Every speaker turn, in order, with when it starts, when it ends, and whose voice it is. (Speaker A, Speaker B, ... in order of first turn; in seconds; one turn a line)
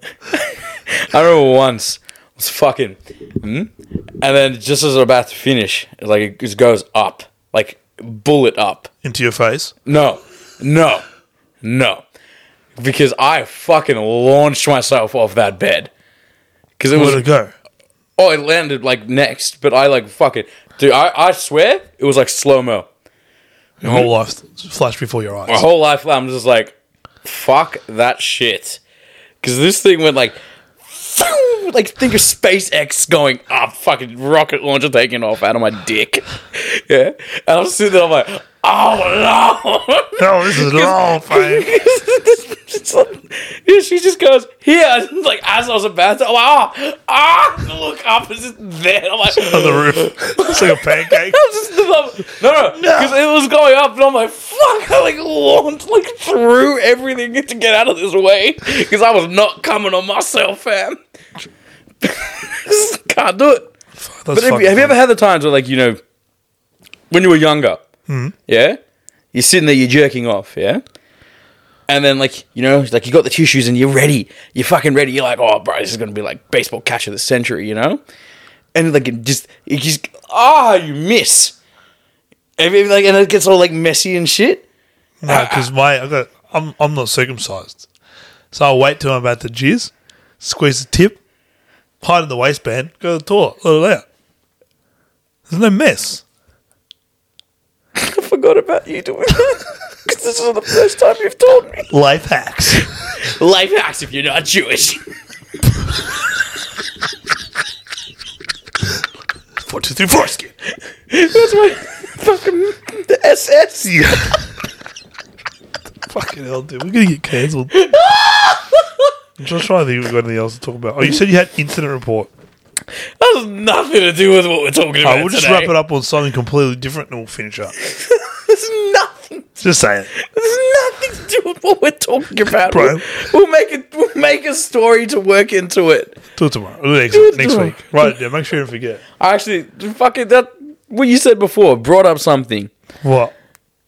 Speaker A: 0.3-8.9
Speaker B: 9.0-9.7
Speaker A: 9.8-11.1
Speaker A: 11.6-12.0
Speaker A: 12.8-15.9
Speaker A: 16.8-17.2
Speaker B: 16.9-17.5
Speaker A: 18.2-22.9
Speaker B: 23.8-25.6
Speaker A: 23.8-24.1
Speaker A: 25.5-28.8
Speaker A: 29.4-61.0
Speaker B: 40.2-41.7
Speaker B: 49.3-51.4
Speaker B: 52.7-53.2
Speaker A: 62.0-63.7
Speaker B: 64.0-65.0
Speaker A: 64.3-66.0
Speaker A: 67.1-67.8
Speaker B: 68.1-68.3
Speaker A: 68.5-68.8
Speaker A: 69.3-70.8
Speaker A: 71.9-78.0
Speaker A: 78.7-81.5
Speaker A: 82.6-84.6
Speaker B: 85.2-87.8
Speaker A: 85.2-85.7
Speaker B: 88.5-91.2
Speaker B: 92.0-94.0
Speaker B: 95.5-96.2
Speaker A: 98.0-101.9
Speaker B: 101.9-102.9
Speaker A: 102.8-105.0
Speaker B: 109.6-110.5
Speaker A: 111.1-114.4
Speaker B: 113.8-114.4
Speaker B: 116.0-117.8
Speaker A: 117.7-119.1
Speaker B: 119.4-122.3
Speaker A: 123.2-125.7
Speaker B: 125.0-127.7
Speaker A: 127.8-129.6
Speaker B: 129.6-130.1
Speaker A: 130.1-136.2
Speaker B: 132.7-133.0
Speaker B: 136.3-139.0
Speaker A: 137.1-138.2
Speaker A: 139.2-142.7
Speaker B: 143.0-143.3